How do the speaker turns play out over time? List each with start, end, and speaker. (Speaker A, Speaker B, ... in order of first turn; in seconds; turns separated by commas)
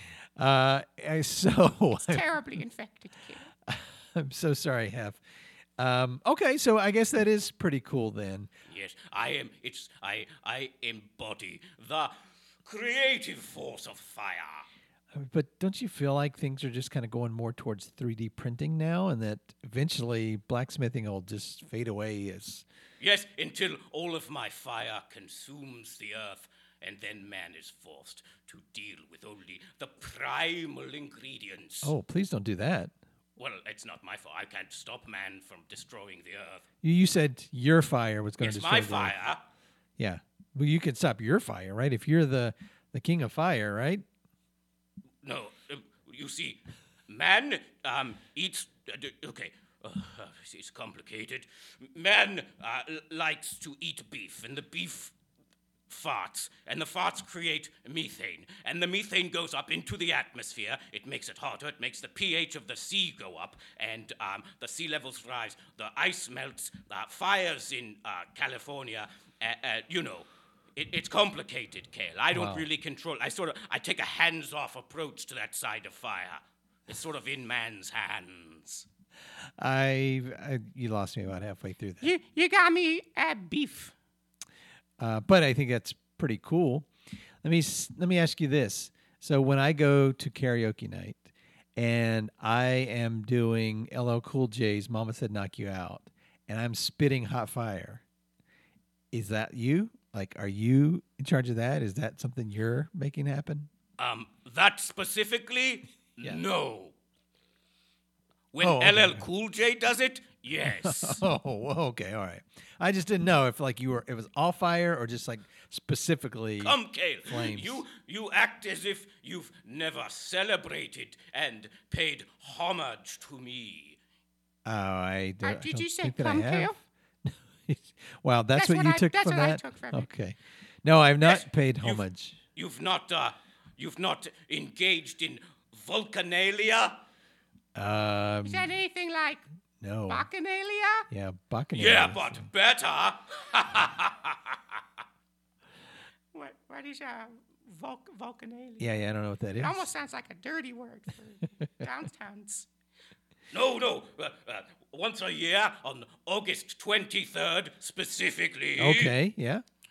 Speaker A: 0.4-2.2, Speaker B: 2.0-3.5, Speaker A: 3.6-5.2, Speaker A: 5.8-8.5, Speaker C: 8.7-12.1, Speaker C: 12.6-14.7, Speaker A: 15.1-22.6, Speaker C: 23.0-31.9, Speaker A: 31.8-32.9, Speaker C: 33.4-36.6, Speaker A: 36.8-39.1, Speaker C: 38.4-39.4, Speaker A: 40.0-44.0, Speaker C: 45.2-55.1, Speaker C: 55.9-78.8, Speaker A: 72.3-72.7, Speaker A: 79.6-82.1, Speaker B: 82.0-83.9, Speaker A: 85.0-86.9, Speaker A: 87.4-98.0, Speaker A: 99.1-103.7, Speaker C: 104.0-106.9, Speaker C: 108.5-111.2, Speaker A: 108.6-109.2, Speaker A: 110.8-117.8, Speaker C: 116.6-124.0, Speaker A: 124.6-132.4, Speaker B: 125.4-126.8, Speaker B: 128.5-130.1, Speaker C: 131.2-132.0, Speaker C: 132.6-137.0, Speaker A: 137.7-138.7, Speaker B: 138.4-139.4, Speaker A: 139.8-140.3, Speaker B: 140.1-141.1, Speaker A: 141.1-142.5, Speaker C: 141.7-144.8, Speaker B: 146.3-148.8, Speaker A: 148.8-149.9, Speaker B: 149.6-152.7, Speaker C: 153.5-159.1, Speaker A: 158.8-159.6